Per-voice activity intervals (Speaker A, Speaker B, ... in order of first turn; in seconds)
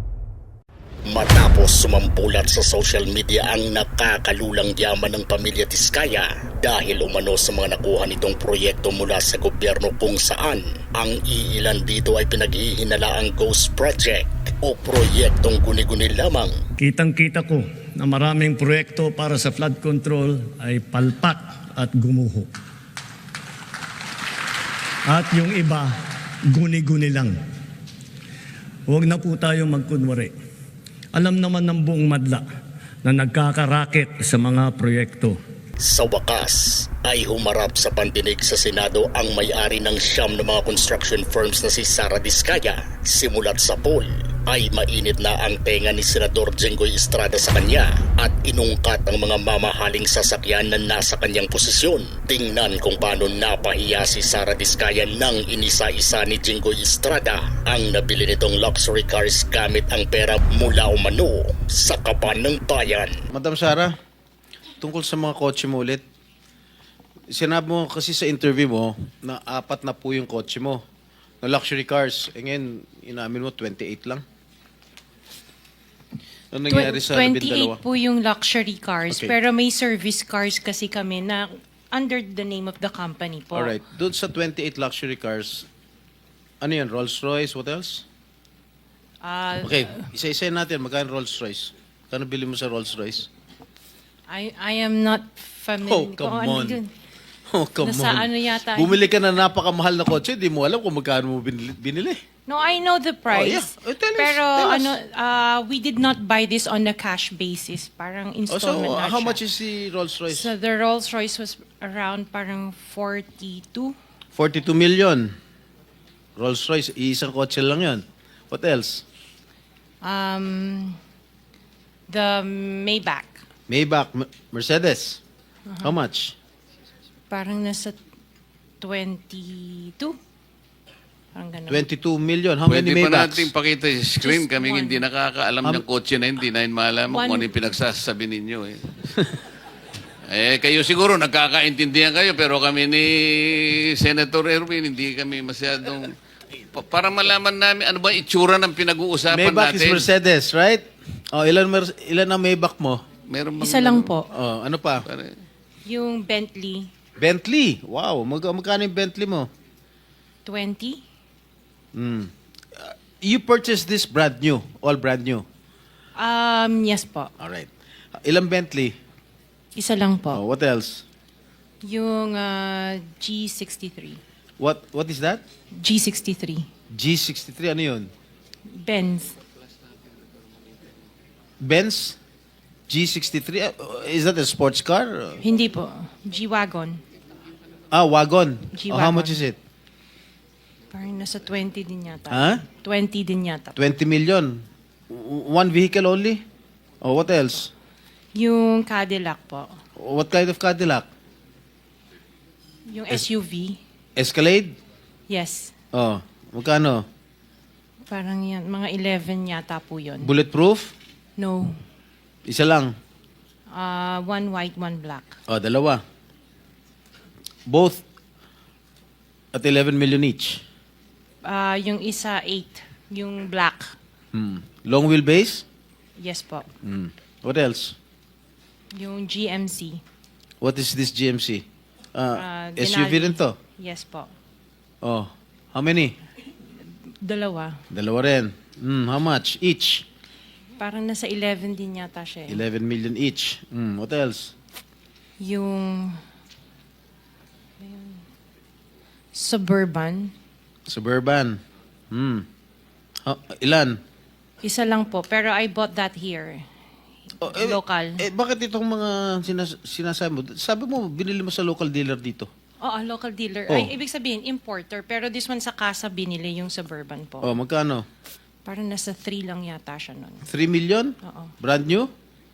Speaker A: 1.1-16.5, 35.8-63.2
Speaker B: 16.8-22.5, 25.1-25.9, 26.5-27.4, 28.9-30.3, 31.1-32.4, 33.0-35.4
Speaker C: 63.3-63.9, 64.8-66.0, 67.3-70.8, 71.4-74.2, 76.5-77.8, 83.5-85.7, 86.6-88.0, 89.6-93.3, 95.8-96.8, 97.5-102.2, 103.3-105.0, 108.5-110.5, 114.3-115.3, 116.4-119.0, 123.7-125.2, 125.8-126.3, 131.7-133.5, 149.3-153.0, 154.3-155.1, 157.2-159.5, 161.9-162.3, 162.8-165.4, 167.4-167.7, 168.2-168.9, 170.3-171.0, 174.6-175.4, 176.9-178.1, 181.6-182.2, 182.9-185.4, 187.9-189.6, 192.3-192.6, 193.8-196.4, 197.0-197.7, 200.0-201.1, 204.2-204.8, 205.9-207.1, 210.2-210.9, 212.5-212.9, 215.5-216.0, 217.7-218.0, 219.5-220.6, 224.3-225.6, 226.8-227.9, 230.6-231.6, 232.2-233.6, 235.0-236.2, 237.9-240.0, 242.5-244.5, 250.9-251.6, 252.1-252.5, 253.2-254.0, 257.4-262.5, 267.4-268.0, 270.5-272.1
Speaker D: 76.7-83.7, 89.2-90.0, 94.3-96.9, 97.8-99.0, 102.5-109.4, 110.3-114.0, 120.0-121.0, 122.1-123.4, 125.7-126.0, 127.3-128.0, 128.8-130.2, 131.3-131.8, 134.2-135.1, 137.1-137.8, 153.6-154.3, 155.8-156.9, 160.4-161.0, 166.2-167.3, 169.8-170.4, 171.8-174.2, 175.8-176.7, 178.7-179.4, 185.4-187.0, 188.7-189.4, 190.9-193.8, 198.3-199.7, 202.9-203.8, 205.3-205.7, 208.1-210.3, 211.4-211.8, 213.7-215.4, 221.4-223.9, 226.2-226.7, 228.9-230.0, 232.4-234.3, 237.2-237.8, 240.8-242.6, 245.4-246.2, 247.8-248.2, 249.3-250.3, 254.6-256.6, 257.3-258.2, 262.8-267.5, 268.6-270.4, 271.2-271.5
Speaker E: 132.7-138.9, 140.3-146.1, 146.7-150.1, 153.3-154.1, 155.1-155.3